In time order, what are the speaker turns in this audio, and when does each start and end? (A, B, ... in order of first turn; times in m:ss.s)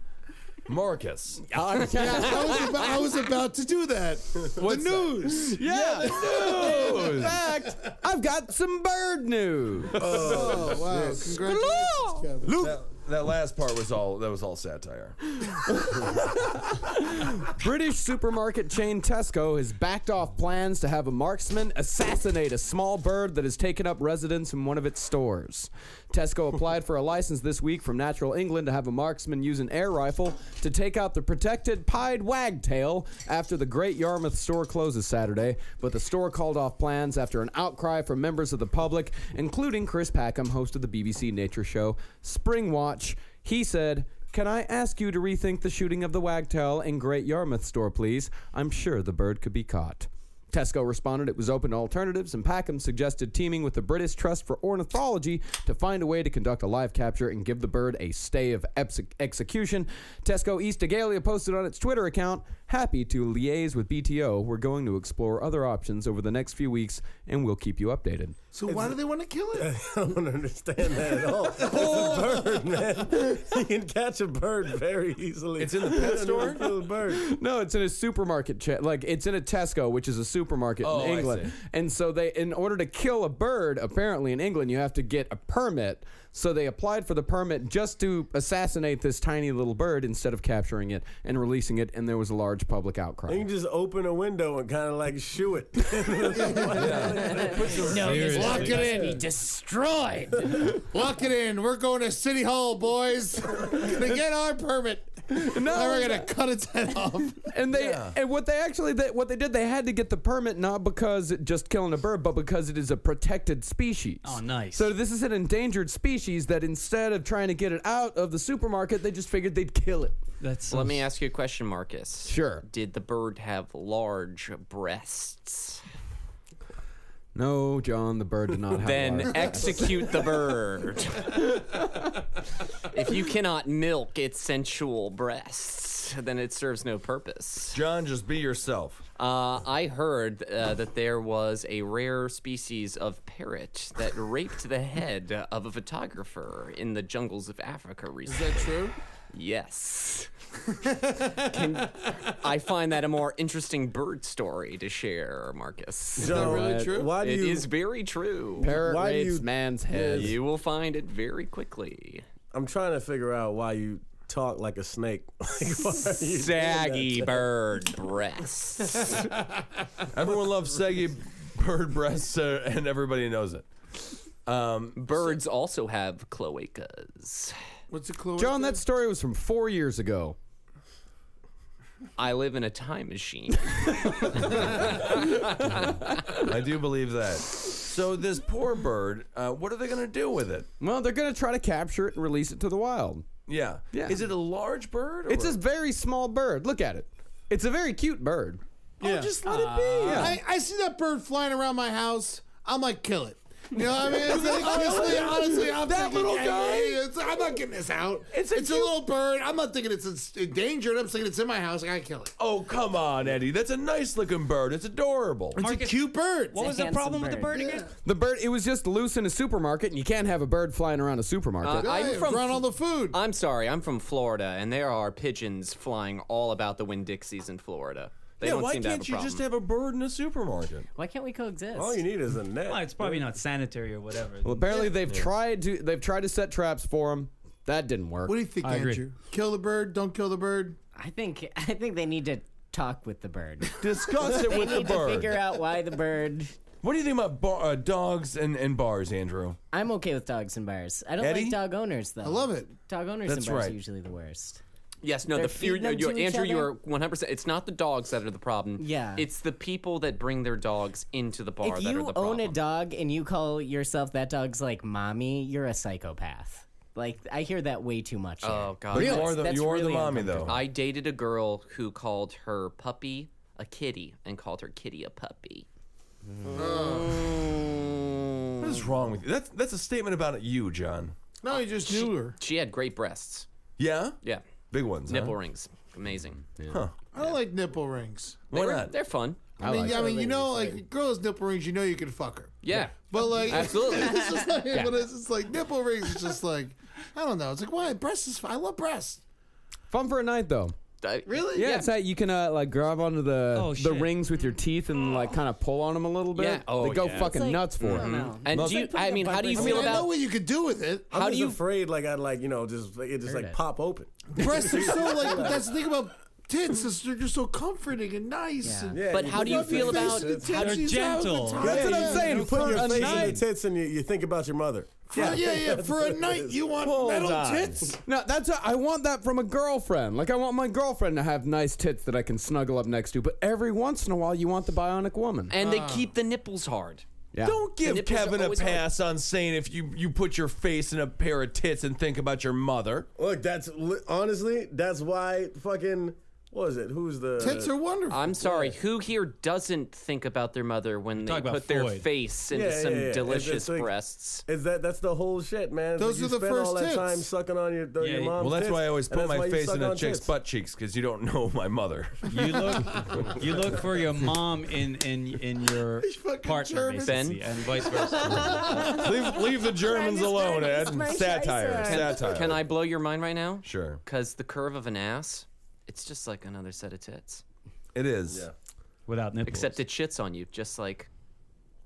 0:00.7-0:01.4 A
0:01.5-0:02.7 B
0:01.9-0:05.6 C
0:04.6-0:07.4 A
0:05.5-0:10.6 B
0:10.0-0:11.3 D
0:10.0-0:10.6 A
0:10.1-0:12.5 C
0:11.2-0:12.3 B
0:12.4-0:12.8 D
0:12.6-0:15.4 A
0:15.4-1:08.4 B
1:08.5-1:09.7 C
1:08.7-1:08.9 D
1:09.6-1:17.3 D
1:11.6-1:12.1 C
1:15.6-1:16.6 A
1:17.1-1:33.4 B
1:20.8-1:21.5 A
1:33.3-1:39.2 D
1:36.3-1:36.9 C
1:36.7-1:38.9 A
1:37.8-1:39.1 E
1:38.1-1:39.6 C
1:38.9-1:39.9 F
1:40.1-1:47.5 C
1:45.3-1:46.3 B
1:47.5-2:00.2 B
1:47.7-1:48.2 A
1:54.2-1:54.9 E
2:00.4-2:01.0 E
2:00.7-2:05.8 G
2:02.2-2:02.6 B
2:07.3-2:10.1 B
2:08.8-2:11.8 G
2:12.8-2:17.8 G
2:17.7-2:19.0 A
2:19.2-2:30.3 G
2:28.3-2:28.9 C
2:31.0-2:31.4 C
2:31.2-2:36.5 G
2:36.2-2:37.7 D
2:36.2-2:37.1 C
2:36.3-2:36.9 B
2:37.2-2:38.7 G
2:38.6-2:40.4 B
2:38.6-2:39.5 D
2:39.9-2:42.2 G
2:40.0-2:40.3 D
2:42.5-2:47.4 D
2:46.2-2:49.2 G
2:49.0-2:49.6 C
2:50.1-2:53.7 A
2:54.4-2:55.3 A
2:55.0-2:57.6 G
2:57.9-2:58.8 C
2:58.4-3:00.4 B
3:02.2-3:05.8 G
3:06.3-3:10.7 A
3:10.8-3:13.3 B
3:13.4-3:15.6 A
3:13.9-3:14.2 B
3:15.3-3:18.6 B
3:19.0-3:19.4 C
3:19.0-3:20.4 A
3:19.7-3:20.4 B
3:20.1-3:32.3 C
3:24.0-3:27.0 A
3:28.3-3:29.0 A
3:32.4-3:35.6 A
3:35.6-3:37.9 E
3:35.6-3:36.6 C
3:36.5-3:37.8 F
3:38.0-3:42.2 B
3:41.6-3:49.4 G
3:41.7-3:43.2 C
3:48.4-3:50.9 A
3:51.0-3:52.0 F
3:51.7-3:53.2 D
3:52.7-3:54.8 E
3:54.4-3:58.4 B
3:58.2-4:00.8 C
3:58.6-3:59.1 E
4:01.0-4:06.5 F
4:03.8-4:05.4 A
4:06.8-4:09.6 A
4:09.7-4:14.6 F
4:11.2-4:11.6 A
4:12.2-4:12.7 C
4:13.2-4:13.7 A
4:15.0-4:22.6 G
4:15.3-4:16.7 F
4:18.8-4:19.2 F
4:21.6-4:30.6 F
4:28.4-4:29.5 G
4:28.9-4:30.6 A
4:29.0-4:29.2 B
4:30.4-4:35.6 G
4:36.5-4:38.8 G
4:36.5-4:37.2 C
4:38.6-4:41.1 A
4:41.4-4:42.4 C
4:41.5-4:43.5 G
4:43.8-4:44.2 A
4:44.7-4:45.3 A
4:45.0-4:46.5 G
4:46.7-4:47.0 A
4:47.1-4:48.5 C
4:48.5-4:48.9 A
4:48.5-4:49.4 G
4:49.6-4:50.1 B
4:49.6-4:52.6 C
4:49.6-4:50.8 D
4:52.6-4:54.5 G
4:53.1-4:59.2 C
4:54.7-4:55.0 B
4:59.9-5:00.8 B
5:01.0-5:01.9 G
5:01.2-5:01.7 C
5:01.5-5:08.3 B
5:03.5-5:04.2 E
5:06.4-5:10.1 G
5:07.0-5:10.0 F
5:08.5-5:08.8 A
5:09.5-5:11.1 C
5:11.1-5:11.6 G
5:11.1-5:15.7 D
5:13.2-5:13.6 F
5:14.3-5:23.2 C
5:18.6-5:19.0 F
5:18.9-5:20.8 D
5:19.1-5:20.8 G
5:20.5-5:23.1 E
5:21.6-5:26.7 D
5:21.6-5:23.4 B
5:25.1-5:28.0 C
5:26.8-5:27.7 A
5:28.0-5:35.5 B
5:35.5-5:37.0 G
5:35.6-5:36.1 C
5:37.3-5:37.6 B
5:37.4-5:43.1 A
5:37.8-5:38.9 G
5:43.2-5:47.7 D
5:47.4-5:48.4 C
5:48.1-5:54.4 G
5:48.4-5:48.7 D
5:51.2-5:52.1 E
5:52.5-5:53.9 D
5:54.5-6:00.3 D
5:56.0-5:57.3 C
5:58.0-5:58.4 E
5:58.4-6:02.7 A
6:02.3-6:08.9 E
6:06.0-6:07.3 C
6:07.0-6:07.4 G
6:08.1-6:08.9 C
6:08.4-6:09.0 F
6:08.7-6:12.6 A
6:09.7-6:12.3 F
6:11.8-6:17.4 G
6:13.6-6:14.0 A
6:17.9-6:18.5 A
6:18.3-6:18.5 D
6:19.1-6:19.8 E
6:19.4-6:21.1 G